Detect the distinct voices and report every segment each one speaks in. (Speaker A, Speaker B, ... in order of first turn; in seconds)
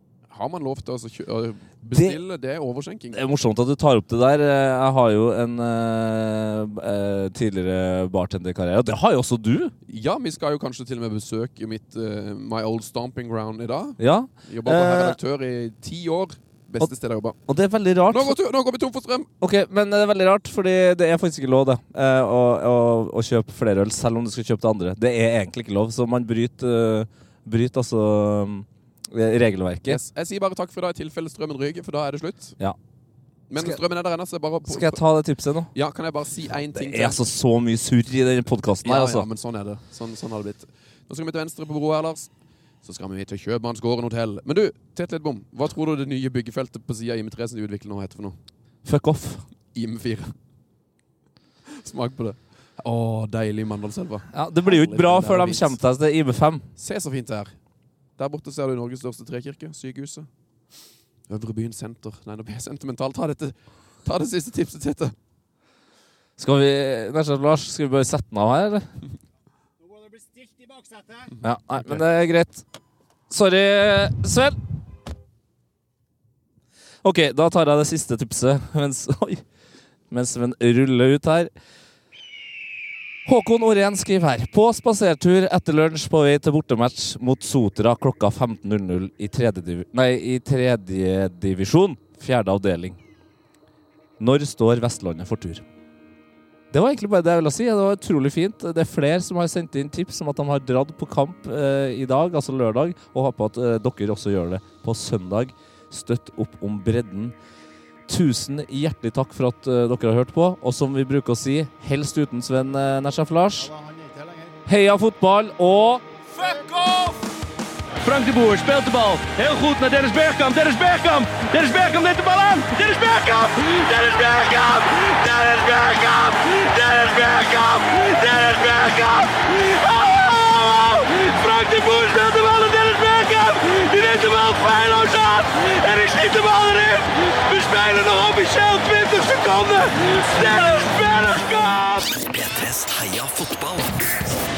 Speaker A: 0.3-3.2, 9.9-17.4, 18.1-19.3, 29.9-32.6, 33.5-35.0, 35.7-37.2, 38.8-42.3, 42.8-48.4, 49.7-50.3, 51.7-55.8, 56.8-57.5, 58.2-60.3, 61.3-65.1, 71.7-72.0
Speaker B: 1.9-2.2, 3.1-9.7, 14.0-15.2, 17.5-18.4, 19.4-30.0, 34.6-35.7, 36.7-39.2, 48.8-49.4, 54.3-56.7, 66.4-68.9, 71.4-72.6, 73.3-74.6, 77.0-79.4, 80.1-81.5, 83.2-93.0, 94.2-95.6, 96.7-107.3, 108.1-113.7, 114.7-116.0
Speaker C: 69.8-71.4, 113.5-114.6, 116.3-116.7
Speaker D: 116.3-117.2, 118.0-142.1
Speaker E: 142.1-144.3